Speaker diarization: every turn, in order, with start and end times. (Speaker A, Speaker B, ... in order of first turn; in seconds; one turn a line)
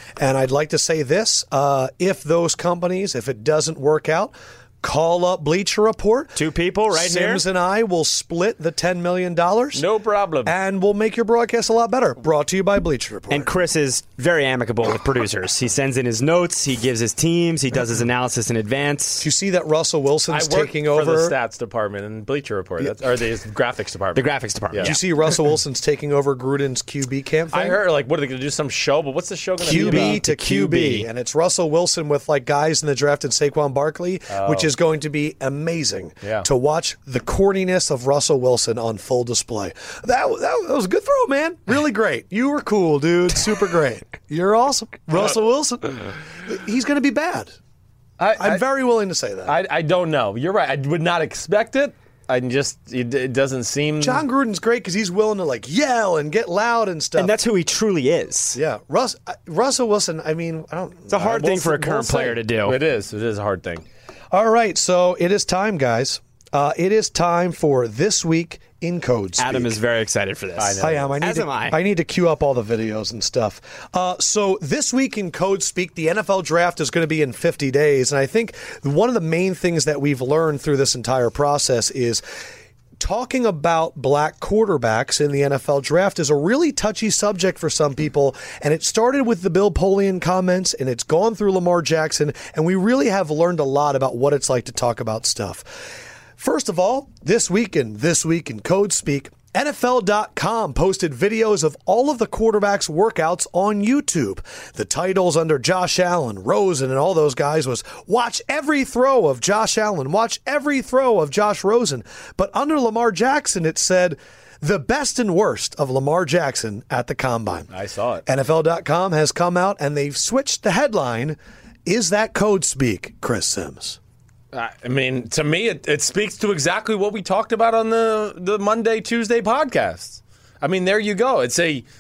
Speaker A: 0.2-6.4
Speaker B: 6.3-7.5
Speaker A: 6.9-9.8
Speaker C: 9.7-10.6
Speaker A: 10.4-13.5
Speaker B: 13.3-19.3
Speaker A: 19.2-21.4
Speaker C: 20.3-24.9
Speaker B: 24.1-25.1
Speaker A: 24.8-27.8
Speaker C: 27.5-30.2
Speaker A: 29.6-47.5
Speaker B: 29.6-31.1
Speaker C: 34.3-34.7
Speaker C: 48.2-48.6
Speaker A: 48.4-49.5
Speaker C: 49.5-54.2
Speaker A: 54.0-57.4
Speaker B: 57.2-58.6
Speaker A: 58.5-62.0
Speaker B: 61.1-62.8
Speaker C: 61.3-63.8
Speaker A: 64.3-69.8
Speaker B: 69.4-71.8
Speaker C: 70.6-71.1
Speaker A: 70.8-82.2
Speaker A: 83.0-117.7
Speaker C: 117.7-118.2
Speaker A: 118.3-124.0
Speaker C: 124.5-131.8